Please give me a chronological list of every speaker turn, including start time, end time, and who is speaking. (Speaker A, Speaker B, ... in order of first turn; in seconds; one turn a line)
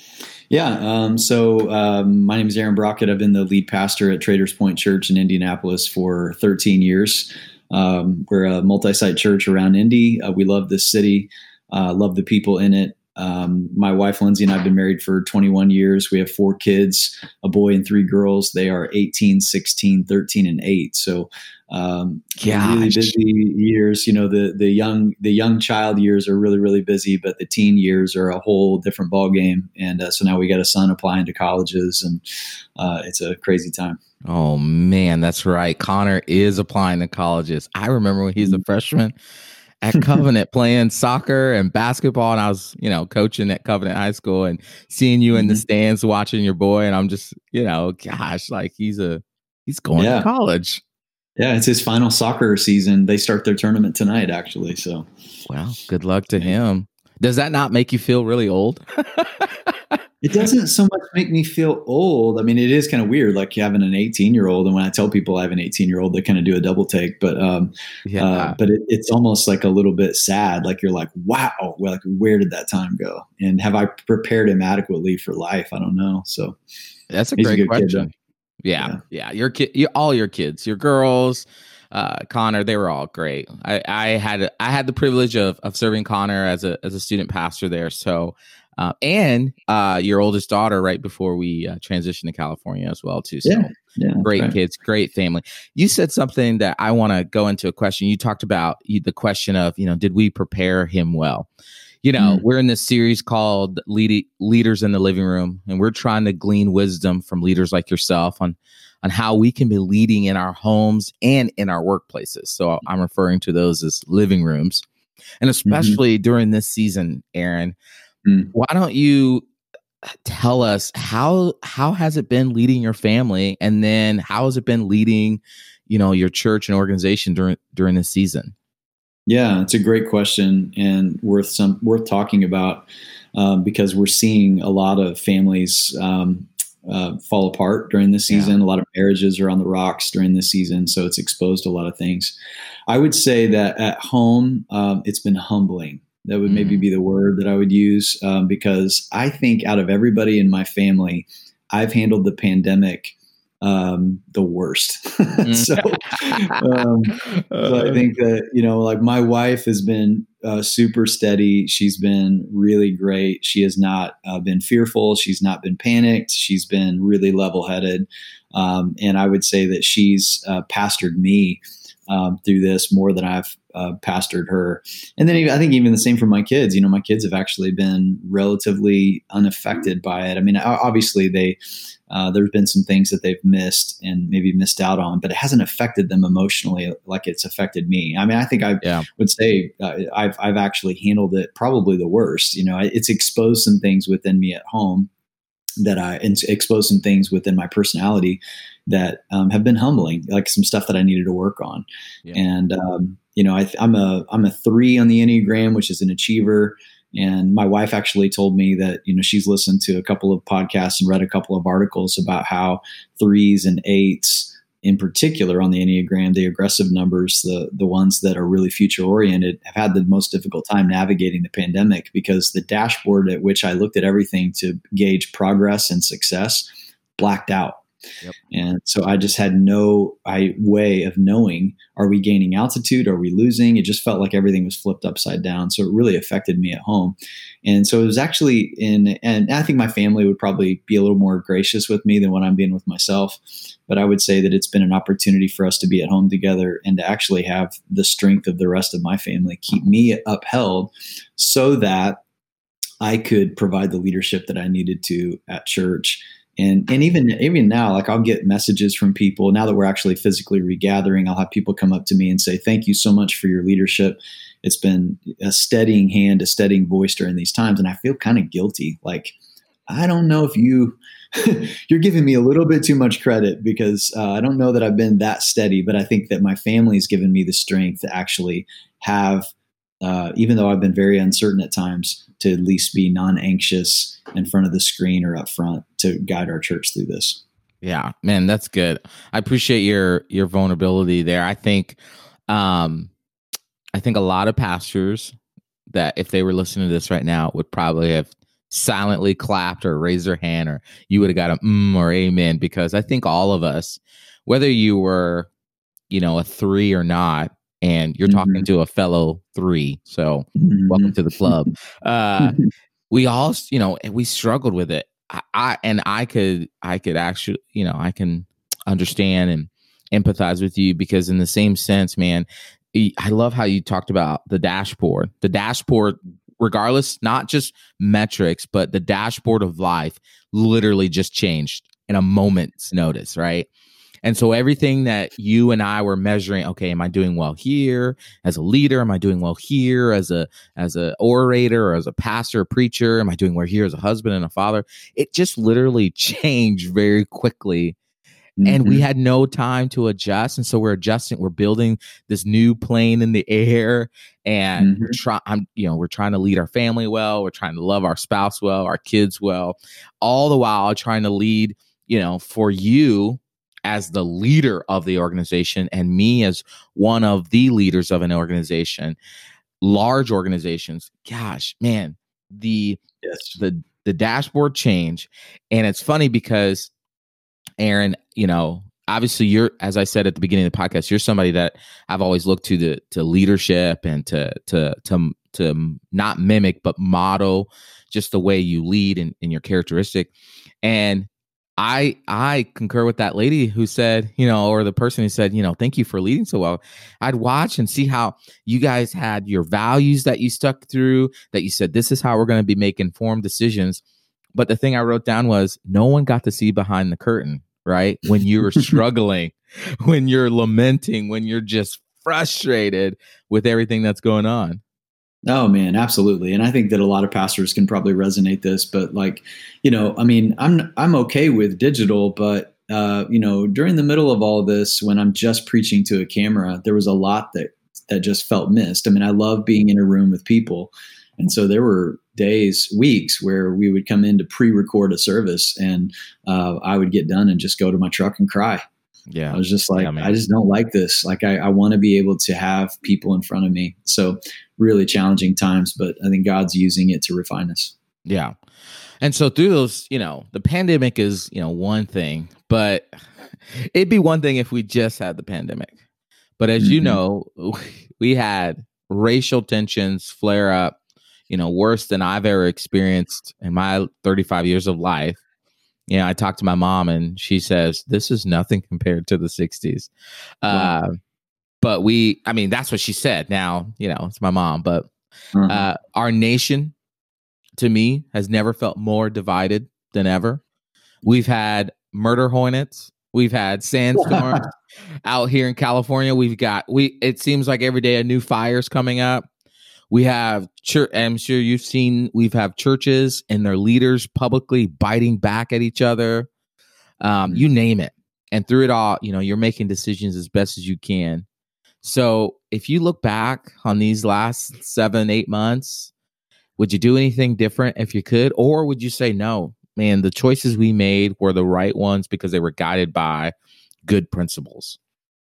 Speaker A: 0.5-32.2
Speaker B: 22.4-23.1
Speaker A: 32.8-34.0
Speaker B: 34.3-39.1
Speaker B: 39.8-50.8
Speaker A: 45.3-45.6
Speaker A: 50.0-50.3
Speaker A: 51.4-55.0
Speaker B: 55.5-59.7
Speaker A: 60.2-76.6
Speaker B: 68.0-68.6
Speaker B: 77.1-78.1
Speaker A: 77.4-78.1
Speaker B: 78.6-93.7
Speaker A: 93.4-94.5
Speaker B: 94.2-101.5
Speaker B: 102.0-114.8
Speaker A: 102.2-102.4
Speaker B: 115.4-117.7
Speaker A: 115.7-116.0
Speaker A: 118.2-118.5
Speaker B: 118.5-119.4
Speaker B: 120.2-128.5
Speaker A: 129.3-142.3
Speaker A: 142.9-195.1
Speaker B: 146.4-146.8
Speaker B: 155.4-158.0
Speaker B: 188.8-189.1
Speaker A: 195.8-227.8
Speaker A: 228.5-252.2
Speaker A: 253.0-269.3
Speaker A: 269.9-279.5
Speaker A: 280.0-287.4
Speaker B: 287.8-293.1
Speaker B: 293.9-295.4
Speaker B: 295.9-305.5
Speaker B: 306.1-312.6
Speaker A: 308.2-308.7
Speaker A: 310.6-311.5
Speaker A: 312.4-312.6
Speaker B: 313.1-333.7
Speaker B: 334.2-347.9
Speaker A: 348.6-349.0
Speaker B: 348.6-369.2
Speaker A: 354.8-355.1
Speaker B: 369.8-373.0
Speaker A: 373.2-373.6
Speaker B: 373.5-376.9
Speaker B: 377.8-390.3
Speaker B: 390.8-404.0
Speaker B: 404.5-414.8
Speaker A: 415.4-438.8
Speaker B: 439.3-440.4
Speaker A: 439.5-447.9
Speaker B: 448.3-448.5
Speaker B: 449.2-453.1
Speaker B: 453.7-455.9
Speaker B: 456.6-460.9
Speaker A: 456.8-457.2
Speaker B: 461.5-465.4
Speaker B: 466.1-470.1
Speaker B: 470.6-471.2
Speaker A: 470.7-470.9
Speaker B: 471.8-475.1
Speaker A: 475.5-475.9
Speaker B: 475.7-476.9
Speaker B: 477.8-480.6
Speaker B: 481.2-484.7
Speaker A: 484.2-484.5
Speaker B: 485.2-489.5
Speaker B: 490.1-496.5
Speaker B: 497.2-501.4
Speaker B: 502.0-506.1
Speaker B: 506.8-513.5
Speaker B: 514.0-515.0